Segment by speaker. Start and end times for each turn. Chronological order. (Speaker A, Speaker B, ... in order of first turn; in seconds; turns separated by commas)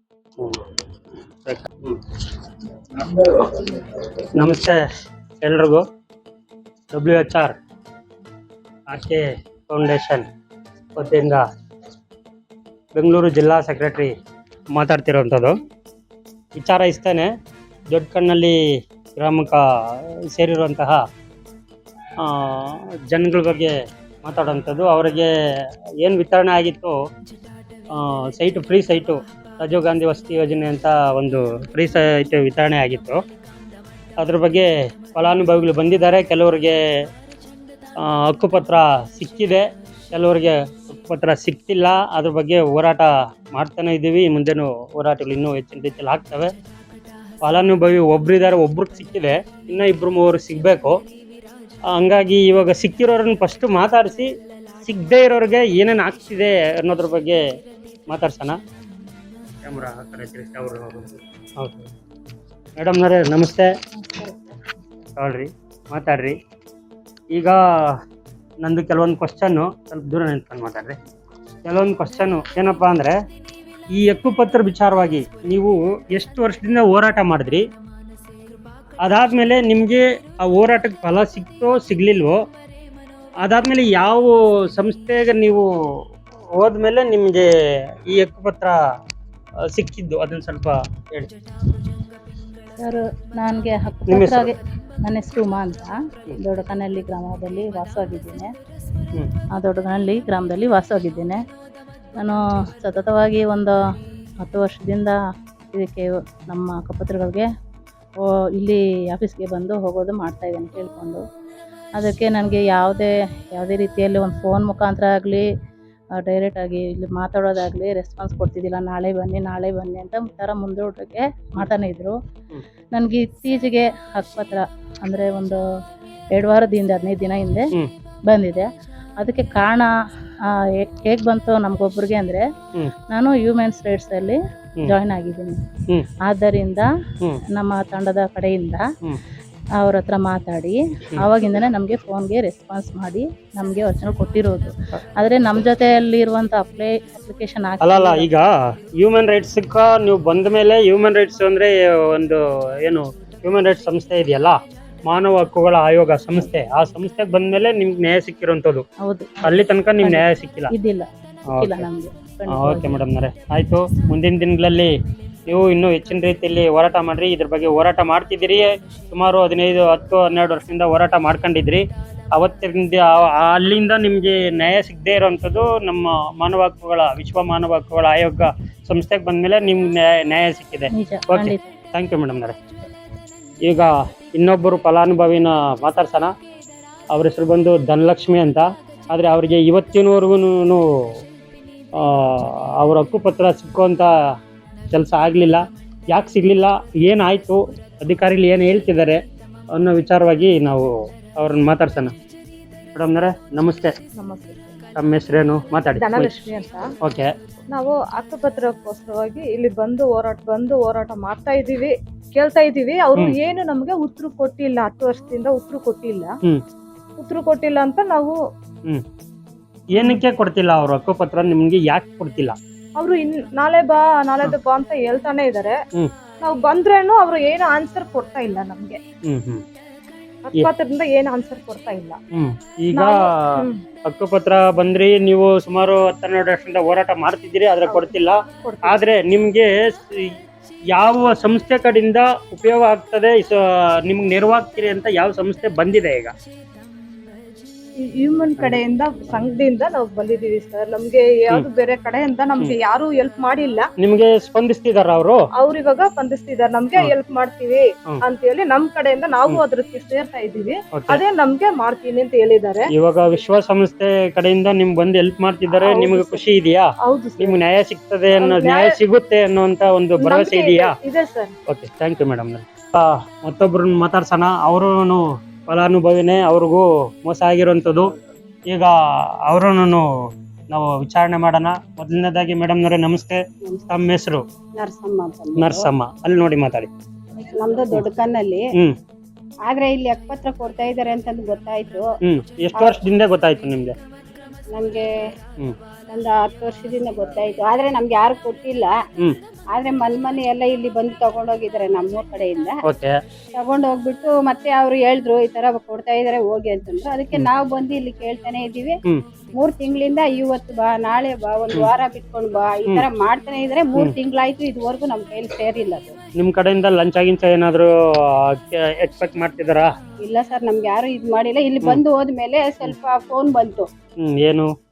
Speaker A: 1.5-1.9, Speaker A: 4.3-4.8, Speaker A: 5.4-5.8, Speaker A: 6.9-7.5, Speaker A: 8.9-10.3, Speaker A: 11.0-11.4, Speaker A: 12.9-14.1, Speaker A: 14.7-15.5, Speaker A: 16.6-17.3, Speaker A: 17.9-18.6, Speaker A: 19.1-19.6, Speaker A: 20.3-21.0, Speaker A: 22.2-25.3, Speaker A: 26.0-26.9, Speaker A: 27.9-33.2, Speaker A: 34.2-36.8, Speaker A: 38.0-46.5, Speaker A: 47.4-51.0, Speaker A: 51.9-54.3, Speaker A: 54.8-57.4, Speaker A: 58.1-58.6, Speaker A: 59.6-61.9, Speaker A: 62.8-63.7, Speaker B: 64.1-64.5, Speaker A: 65.2-66.4, Speaker A: 67.3-67.6, Speaker A: 68.6-71.0, Speaker A: 71.7-73.2, Speaker A: 73.9-77.6, Speaker A: 79.0-82.4, Speaker A: 83.4-85.6, Speaker A: 86.5-87.5, Speaker A: 88.1-88.8, Speaker A: 89.7-91.3, Speaker C: 92.8-98.5, Speaker A: 94.1-94.5, Speaker C: 99.5-101.4, Speaker C: 102.2-103.7, Speaker C: 104.4-105.2, Speaker C: 105.7-107.5, Speaker C: 108.2-111.2, Speaker C: 112.0-115.5, Speaker C: 116.2-122.2, Speaker C: 122.9-125.6, Speaker C: 126.3-127.7, Speaker C: 128.3-128.7, Speaker C: 129.2-129.9, Speaker C: 130.8-132.4, Speaker C: 133.1-135.6, Speaker C: 136.3-136.9, Speaker C: 137.6-138.8, Speaker C: 139.8-148.3, Speaker A: 147.8-148.5, Speaker A: 149.0-158.8, Speaker C: 159.1-163.0, Speaker A: 159.4-160.7, Speaker A: 161.6-161.9, Speaker A: 162.5-164.9, Speaker A: 165.5-182.6, Speaker C: 180.9-181.7, Speaker A: 183.6-186.3, Speaker A: 187.1-190.8, Speaker A: 191.9-194.1, Speaker A: 194.9-199.2, Speaker A: 199.7-202.1, Speaker A: 202.9-203.9, Speaker B: 204.2-204.7, Speaker A: 205.0-206.4, Speaker B: 205.9-206.8, Speaker B: 207.7-216.3, Speaker B: 217.2-218.3, Speaker A: 219.9-222.6, Speaker B: 219.9-220.2, Speaker B: 223.0-225.8, Speaker B: 226.4-229.0, Speaker A: 229.3-229.6, Speaker B: 230.4-232.2, Speaker A: 232.3-233.2, Speaker B: 232.9-233.8, Speaker A: 234.1-240.3, Speaker B: 237.8-239.0, Speaker A: 240.9-246.3, Speaker B: 248.1-253.8, Speaker A: 248.6-248.8, Speaker A: 254.0-255.4, Speaker B: 255.6-262.8, Speaker A: 261.0-261.2, Speaker A: 262.9-270.9, Speaker B: 265.7-266.4, Speaker B: 267.1-267.6, Speaker B: 268.4-268.9, Speaker B: 270.2-271.5, Speaker A: 271.7-278.1, Speaker A: 279.4-280.0, Speaker A: 280.7-284.4, Speaker D: 284.8-285.9, Speaker A: 285.6-286.9, Speaker D: 287.6-288.6, Speaker D: 289.6-292.0, Speaker A: 292.2-294.0, Speaker D: 294.7-295.1, Speaker D: 296.1-298.9, Speaker D: 299.7-302.7, Speaker A: 302.9-303.1, Speaker D: 303.6-308.9, Speaker D: 309.6-316.2, Speaker A: 316.4-317.9, Speaker A: 318.5-319.9, Speaker D: 320.2-323.9, Speaker A: 324.2-324.7